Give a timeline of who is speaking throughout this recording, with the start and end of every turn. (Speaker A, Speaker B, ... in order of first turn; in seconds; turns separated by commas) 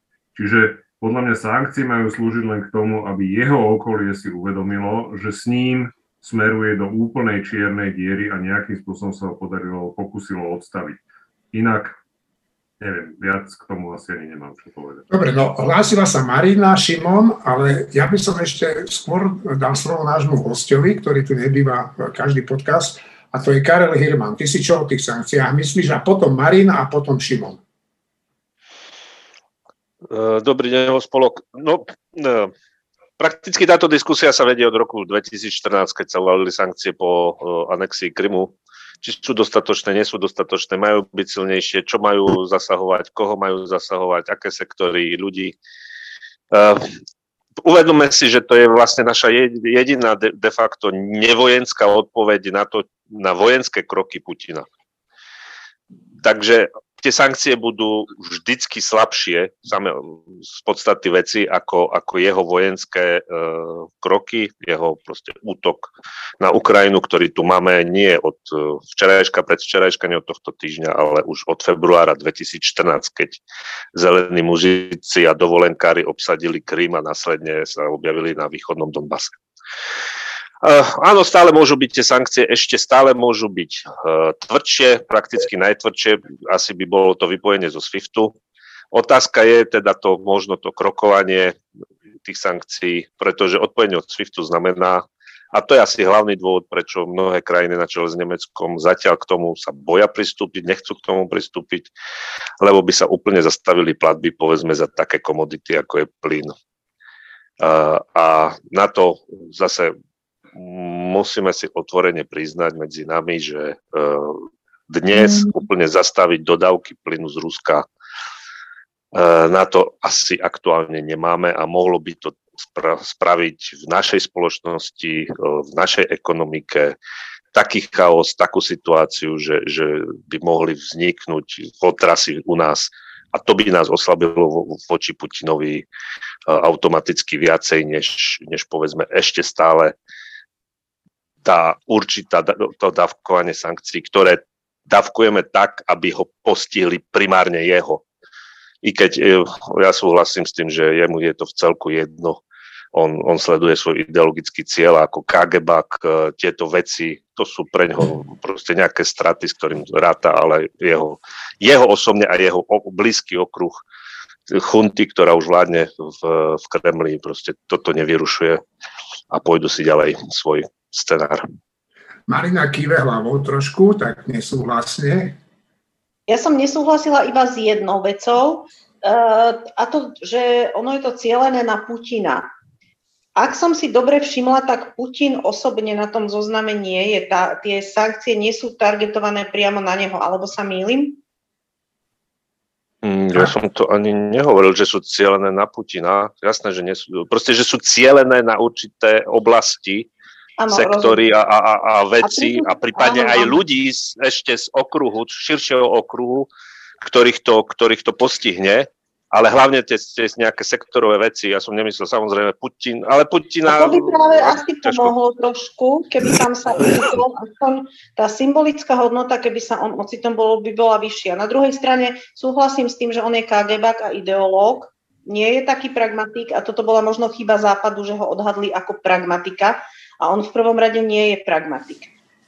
Speaker A: 0.3-11.0, Speaker A: 11.5-11.9, Speaker A: 12.8-15.0, Speaker B: 15.1-27.6, Speaker C: 30.1-32.5, Speaker C: 33.2-45.5, Speaker C: 46.5-46.9, Speaker C: 47.6-54.6, Speaker C: 56.2-73.4, Speaker C: 73.9-79.3, Speaker C: 80.6-88.4, Speaker C: 88.9-91.6, Speaker C: 92.2-101.9, Speaker C: 102.6-106.5, Speaker C: 107.6-109.9, Speaker C: 110.5-117.8, Speaker C: 119.1-127.0, Speaker C: 127.5-135.8, Speaker C: 136.5-139.9, Speaker C: 141.4-148.0, Speaker C: 148.8-152.4, Speaker C: 152.9-163.8, Speaker C: 164.5-168.6, Speaker C: 169.3-171.4, Speaker B: 172.3-175.4, Speaker D: 176.3-182.5, Speaker D: 183.3-191.2, Speaker C: 193.0-200.1, Speaker D: 200.6-201.2, Speaker C: 200.7-206.5, Speaker D: 202.2-203.6, Speaker C: 207.0-215.1, Speaker D: 213.7-232.1